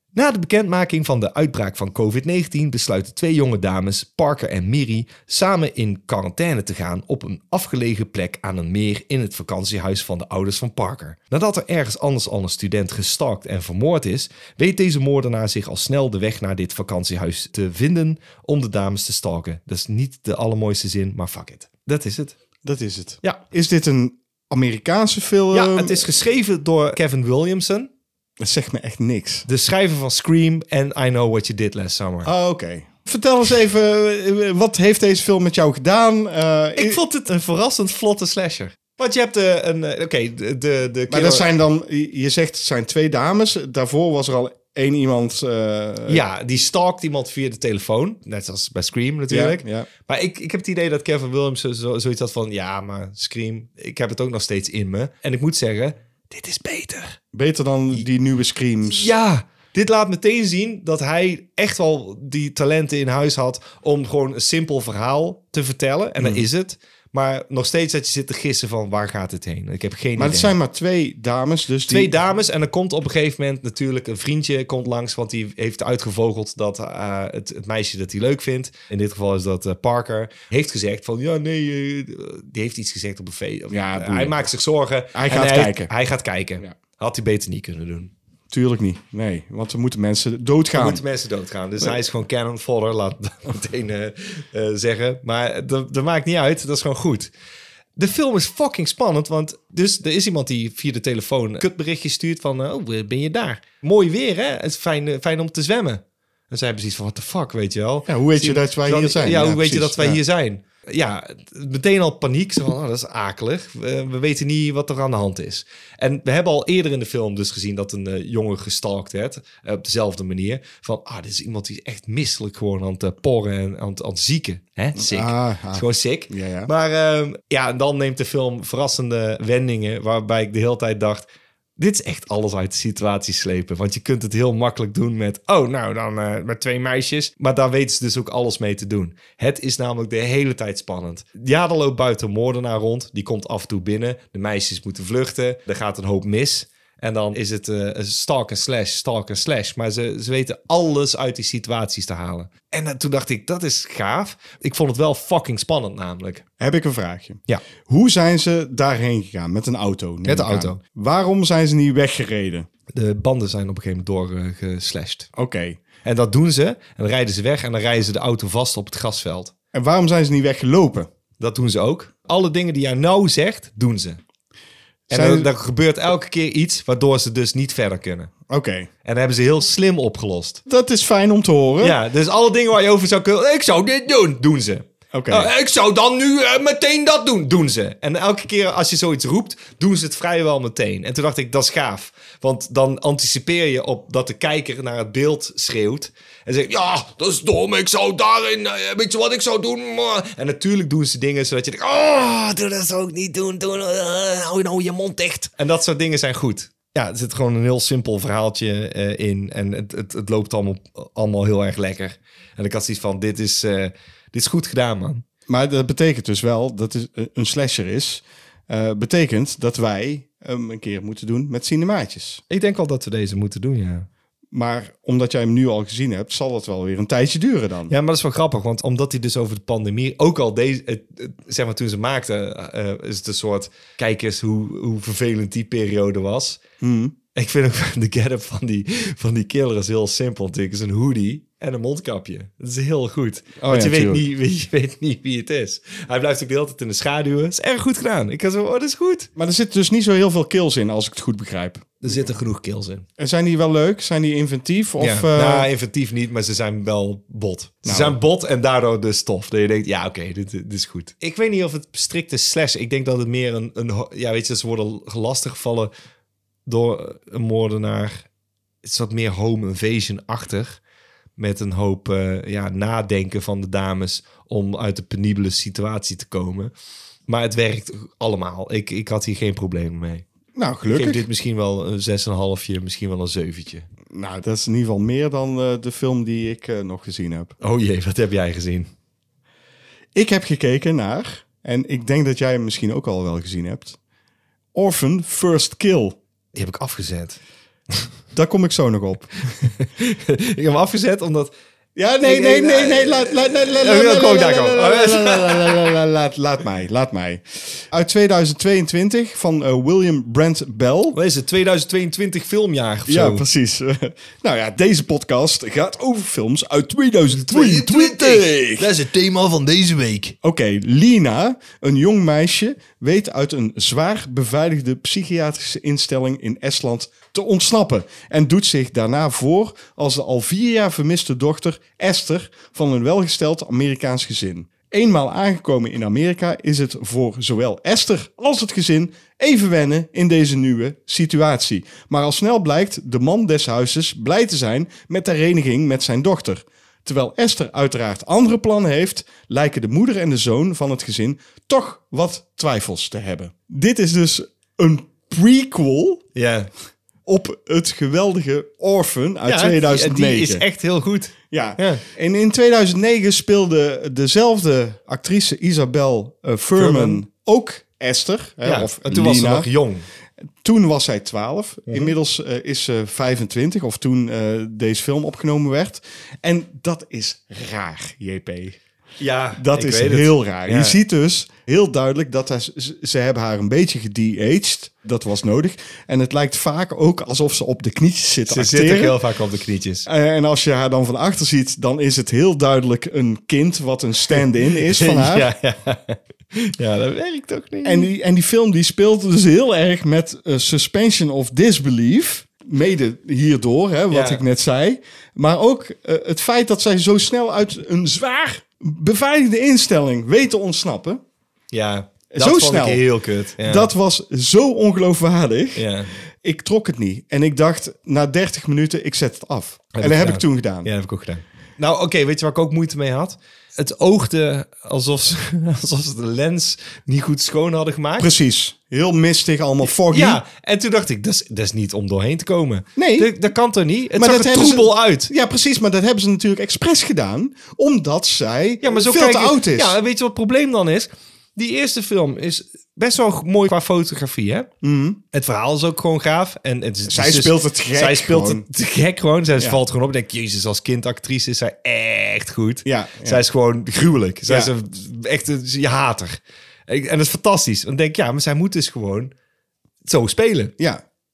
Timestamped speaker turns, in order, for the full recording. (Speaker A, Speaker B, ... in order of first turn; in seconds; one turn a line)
Speaker A: 0.1-22.4
Speaker B: 22.6-26.1
Speaker A: 25.5-27.9
Speaker B: 28.4-29.5
Speaker A: 29.5-32.3
Speaker B: 32.2-37.0
Speaker A: 36.8-41.5
Speaker B: 41.1-46.2
Speaker A: 46.1-57.2
Speaker B: 49.3-49.9
Speaker B: 57.3-59.1
Speaker A: 58.9-70.5
Speaker B: 66.2-66.4
Speaker B: 70.2-72.1
Speaker A: 71.9-88.1
Speaker B: 83.7-84.4
Speaker B: 85.1-85.9
Speaker B: 88.5-91.0
Speaker A: 90.8-97.3
Speaker A: 98.0-131.3
Speaker B: 108.1-110.2
Speaker B: 125.0-126.7
Speaker A: 131.8-156.4
Speaker B: 156.6-162.7
Speaker A: 160.3-160.8
Speaker A: 162.9-165.3
Speaker B: 165.3-165.8
Speaker A: 166.0-169.5
Speaker B: 169.7-171.1
Speaker A: 171.4-174.2
Speaker B: 175.1-175.5
Speaker A: 175.1-178.3
Speaker B: 178.5-178.9
Speaker A: 179.1-180.6
Speaker B: 180.7-182.0
Speaker A: 181.8-215.2
Speaker B: 185.1-185.5
Speaker B: 215.5-222.4
Speaker A: 222.5-224.1
Speaker B: 224.5-227.9
Speaker A: 227.9-236.6
Speaker B: 236.8-237.2
Speaker A: 237.3-249.3
Speaker B: 243.6-244.2
Speaker B: 249.4-252.1
Speaker A: 252.0-253.1
Speaker B: 253.2-255.7
Speaker A: 255.0-265.9
Speaker B: 257.9-258.2
Speaker A: 266.7-268.2
Speaker A: 268.8-270.8
Speaker A: 271.4-276.7
Speaker A: 277.3-280.3
Speaker B: 280.6-281.3
Speaker A: 280.9-283.9
Speaker B: 284.1-287.6
Speaker A: 287.6-288.9
Speaker B: 290.1-294.0
Speaker B: 294.7-296.2
Speaker A: 296.5-297.4
Speaker B: 298.3-299.7
Speaker A: 299.8-301.5
Speaker B: 302.0-311.2
Speaker A: 302.2-305.9
Speaker A: 311.1-313.4
Speaker B: 313.1-318.9
Speaker A: 317.3-320.4
Speaker B: 320.4-356.2
Speaker A: 356.4-356.7
Speaker B: 357.3-360.6
Speaker A: 359.5-362.0
Speaker B: 361.5-369.7
Speaker A: 366.8-367.2
Speaker A: 368.6-370.1
Speaker B: 370.6-378.8
Speaker A: 379.2-381.0
Speaker B: 379.6-389.2
Speaker A: 388.5-390.1
Speaker B: 390.1-395.5
Speaker A: 394.9-398.1
Speaker B: 397.8-411.2
Speaker A: 404.1-404.4
Speaker A: 411.7-413.9
Speaker B: 412.3-413.1
Speaker B: 413.6-415.9
Speaker A: 415.8-416.1
Speaker B: 416.4-420.9
Speaker A: 419.9-428.3
Speaker B: 428.2-430.4
Speaker A: 430.0-435.3
Speaker B: 433.0-433.3
Speaker B: 434.2-440.0
Speaker A: 438.8-444.7
Speaker B: 444.8-445.2
Speaker A: 445.3-459.3
Speaker B: 447.1-448.7
Speaker B: 452.9-453.4
Speaker B: 454.5-454.7
Speaker A: 460.1-460.7